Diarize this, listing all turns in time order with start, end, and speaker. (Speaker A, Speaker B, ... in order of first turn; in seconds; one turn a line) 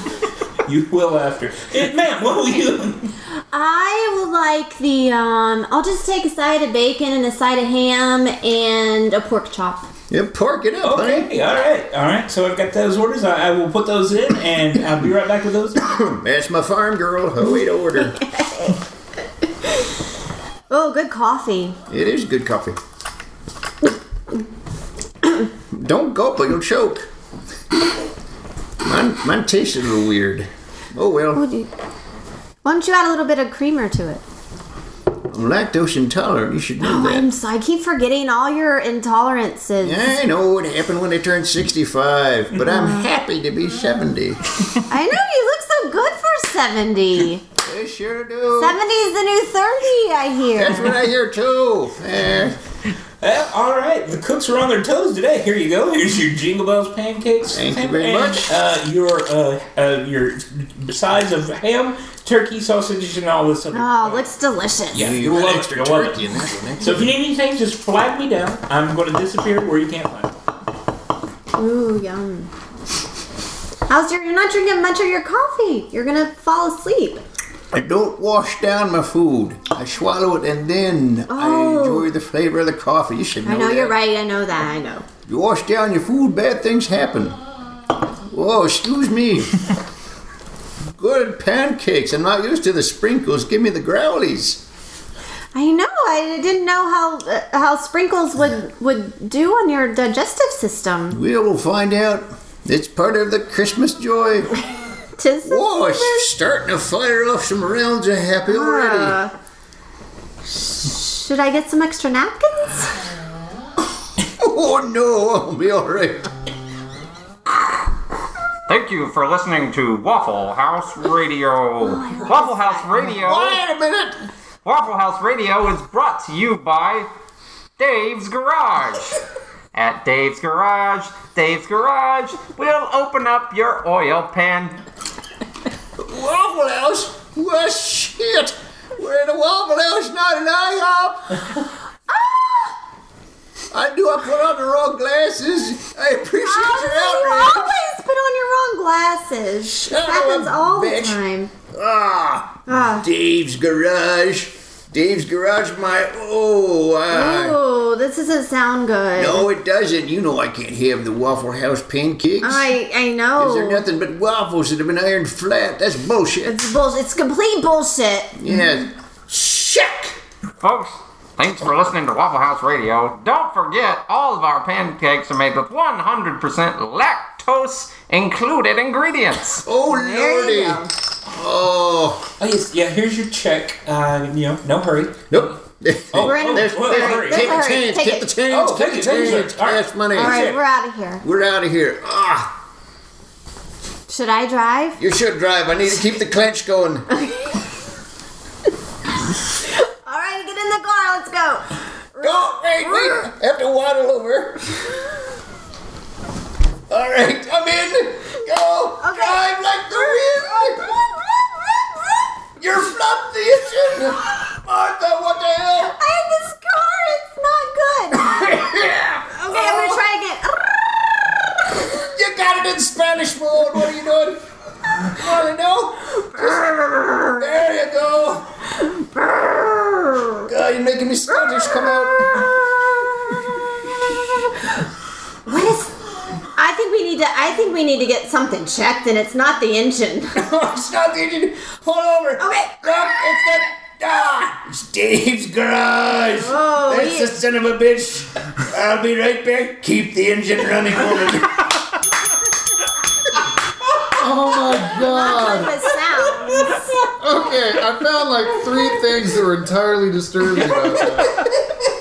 Speaker A: 0.6-3.1
Speaker B: 3.5-9.9
Speaker C: 10.1-11.3
Speaker A: 10.8-15.9
Speaker C: 15.8-18.2
Speaker B: 18.2-18.8
Speaker B: 20.7-21.8
Speaker C: 21.9-22.8
Speaker C: 25.7-27.1
Speaker C: 28.8-31.4
Speaker B: 31.4-31.7
Speaker B: 32.6-34.2
Speaker C: 35.3-37.2
Speaker B: 36.8-40.2
Speaker C: 39.8-44.5
Speaker B: 42.6-43.1
Speaker B: 44.9-47.4
Speaker C: 47.6-48.8
Speaker B: 48.5-51.0
Speaker C: 50.5-52.6
Speaker A: 53.2-64.2
Speaker C: 57.5-58.5
Speaker B: 63.7-65.1
Speaker A: 64.9-70.3
Speaker C: 65.0-67.1
Speaker B: 71.6-72.5
Speaker B: 73.9-77.2
Speaker C: 77.7-84.0
Speaker B: 81.3-82.1
Speaker B: 83.5-85.0
Speaker C: 85.3-87.4
Speaker C: 88.3-89.7
Speaker C: 91.0-94.6
Speaker B: 95.5-101.2
Speaker C: 101.1-104.5
Speaker B: 105.2-106.3
Speaker C: 105.4-109.2
Speaker B: 108.5-109.3
Speaker B: 110.8-112.9
Speaker C: 114.4-116.3
Speaker D: 118.7-123.6
Speaker B: 121.8-122.9
Speaker C: 123.0-124.2
Speaker D: 124.6-127.1
Speaker D: 127.8-129.2
Speaker D: 129.7-134.8
Speaker C: 136.0-141.4
Speaker B: 142.1-142.7
Speaker C: 143.7-147.8
Speaker B: 146.4-151.5
Speaker C: 149.7-151.2
Speaker C: 151.7-157.6
Speaker B: 152.7-153.1
Speaker B: 157.1-159.5
Speaker C: 159.2-162.7
Speaker B: 162.4-163.9
Speaker C: 163.4-166.6
Speaker B: 166.5-168.4
Speaker C: 168.4-170.2
Speaker D: 170.6-179.7
Speaker C: 179.7-182.2
Speaker B: 179.9-180.9
Speaker A: 182.4-185.5
Speaker C: 185.3-190.5
Speaker A: 186.1-187.7
Speaker B: 186.2-188.3
Speaker A: 188.5-190.6
Speaker B: 190.1-191.2
Speaker C: 191.2-192.5
Speaker B: 194.1-195.0
Speaker C: 195.0-197.1
Speaker B: 197.1-197.6
Speaker B: 199.7-203.2
Speaker C: 202.2-204.7
Speaker C: 206.9-210.9
Speaker B: 209.0-211.2
Speaker C: 212.6-216.0
Speaker B: 216.0-218.8
Speaker C: 218.2-220.0
Speaker B: 219.3-221.4
Speaker C: 221.8-228.4
Speaker B: 226.3-227.4
Speaker B: 229.2-230.4
Speaker C: 230.5-232.7
Speaker B: 231.4-232.5
Speaker B: 235.5-235.9
Speaker B: 236.6-240.4
Speaker C: 240.3-251.8
Speaker B: 242.4-243.2
Speaker B: 246.3-247.3
Speaker E: 254.1-255.8
Speaker B: 254.9-256.9
Speaker E: 257.2-261.4